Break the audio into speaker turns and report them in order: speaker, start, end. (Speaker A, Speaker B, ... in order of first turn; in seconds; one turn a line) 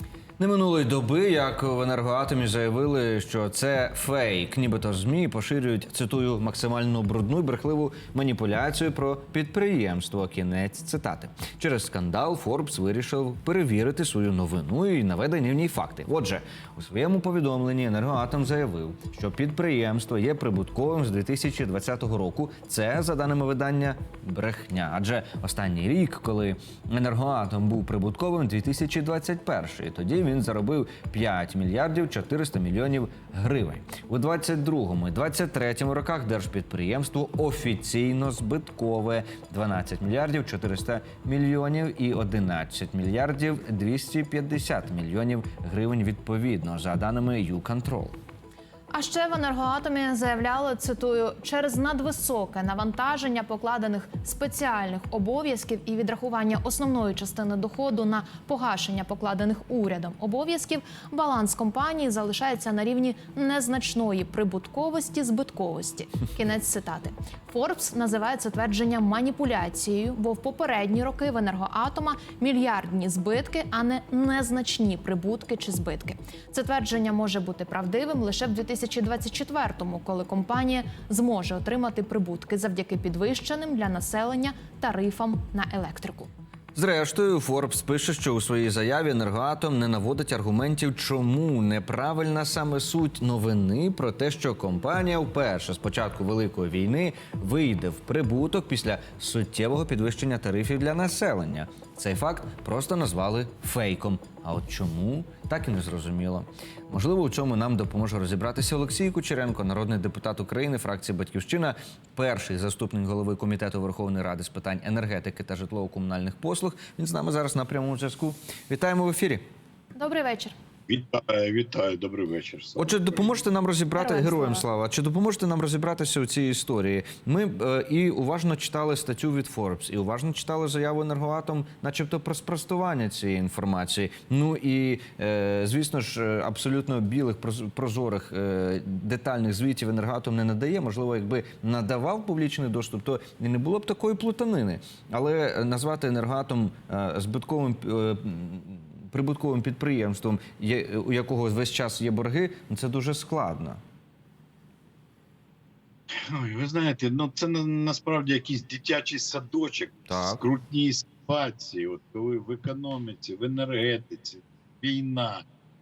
Speaker A: 0.4-48.1
Speaker B: 48.9-86.3
Speaker A: 86.7-119.4
Speaker B: 119.9-120.5
Speaker C: 120.9-123.3
Speaker A: 122.8-153.8
Speaker B: 124.0-124.6
Speaker C: 156.1-165.4
Speaker A: 160.1-160.4